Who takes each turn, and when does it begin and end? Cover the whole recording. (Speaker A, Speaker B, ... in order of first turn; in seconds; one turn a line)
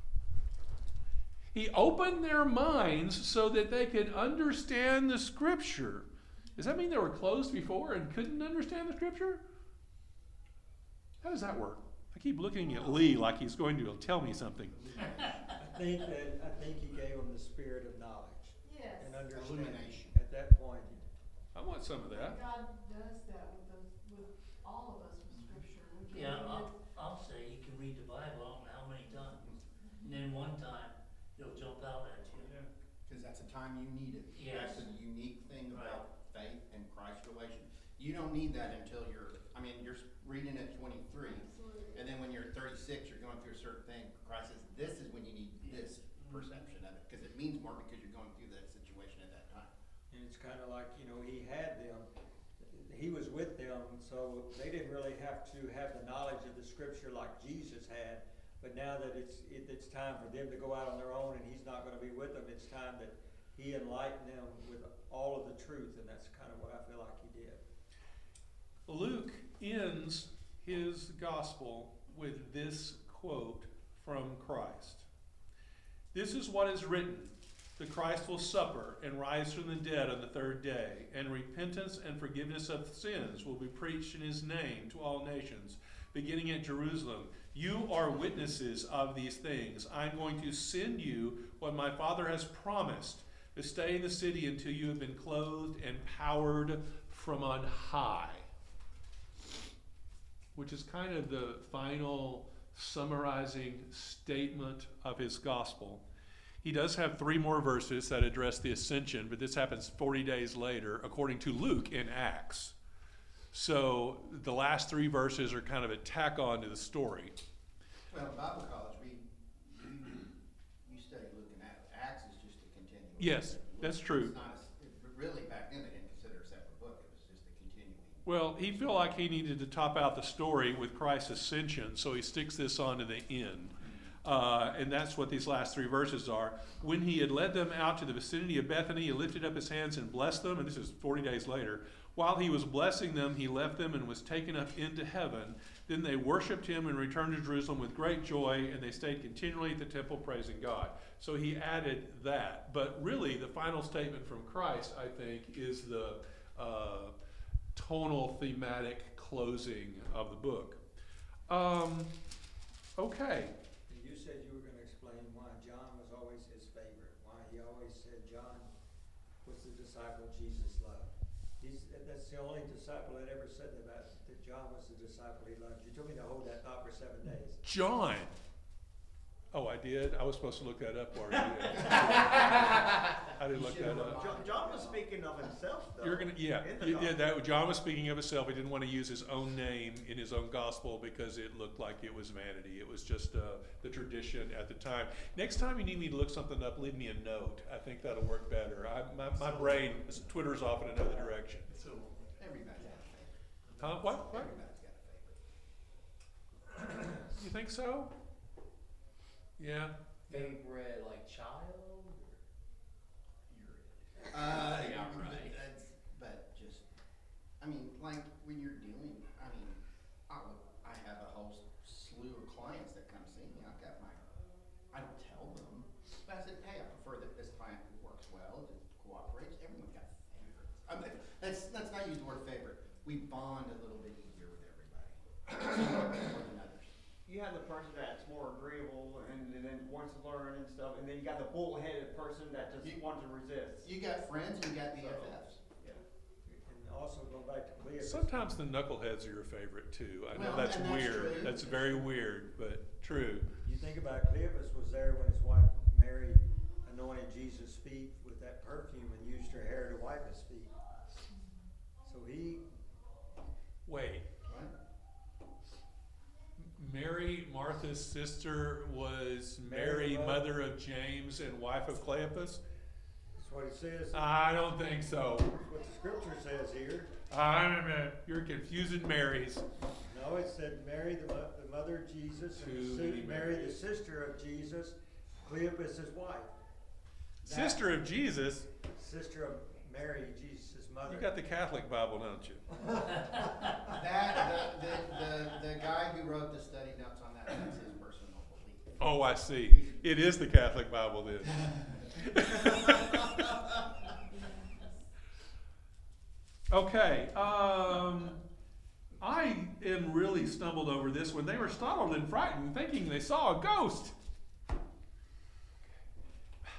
Speaker A: 1.5-9.4
Speaker A: 11.2-15.0
Speaker B: 15.6-21.0
Speaker C: 18.6-19.2
Speaker D: 19.3-20.1
Speaker A: 21.5-22.4
Speaker C: 22.1-26.8
Speaker E: 26.1-29.5
Speaker E: 30.0-32.5
Speaker D: 33.0-49.7
Speaker E: 34.3-34.9
Speaker E: 35.7-36.0
Speaker C: 41.2-42.0
Speaker F: 46.2-46.6
Speaker B: 50.1-52.1
Speaker B: 52.6-67.6
Speaker A: 68.9-75.1
Speaker A: 76.1-98.5
Speaker A: 100.5-106.0
Speaker A: 106.6-112.7
Speaker A: 113.5-117.4
Speaker D: 118.1-120.3
Speaker D: 120.8-128.2
Speaker A: 123.2-124.3
Speaker A: 128.3-157.1
Speaker A: 157.7-160.8
Speaker A: 161.5-162.1
Speaker A: 163.0-163.6
Speaker B: 163.9-168.7
Speaker B: 169.4-177.6
Speaker A: 177.6-178.4
Speaker A: 179.5-184.2
Speaker D: 181.8-185.1
Speaker F: 184.0-187.2
Speaker A: 186.0-201.7
Speaker D: 202.4-205.4
Speaker A: 203.8-204.5
Speaker A: 207.3-208.1
Speaker A: 209.6-210.6
Speaker G: 210.3-212.4
Speaker D: 213.5-216.8
Speaker G: 214.3-215.6
Speaker D: 217.6-219.8
Speaker D: 220.3-224.2
Speaker D: 224.9-236.9
Speaker F: 237.3-243.9
Speaker D: 243.8-245.6
Speaker F: 244.9-246.0
Speaker B: 246.4-248.6
Speaker A: 248.0-253.5
Speaker D: 250.3-252.1
Speaker B: 253.6-260.7
Speaker B: 262.1-262.6
Speaker A: 263.9-264.3
Speaker D: 264.4-264.7
Speaker A: 266.6-272.6
Speaker B: 269.6-270.4
Speaker B: 273.4-274.4
Speaker A: 274.1-275.5
Speaker B: 275.4-277.1
Speaker A: 277.3-279.6
Speaker B: 280.0-286.5
Speaker A: 282.6-283.8
Speaker A: 287.4-288.7
Speaker D: 287.4-288.0
Speaker B: 288.9-291.3
Speaker A: 291.1-292.6
Speaker D: 293.8-299.1
Speaker A: 299.0-303.6
Speaker D: 299.6-300.0
Speaker C: 304.1-305.1
Speaker A: 306.7-308.4
Speaker A: 309.2-314.1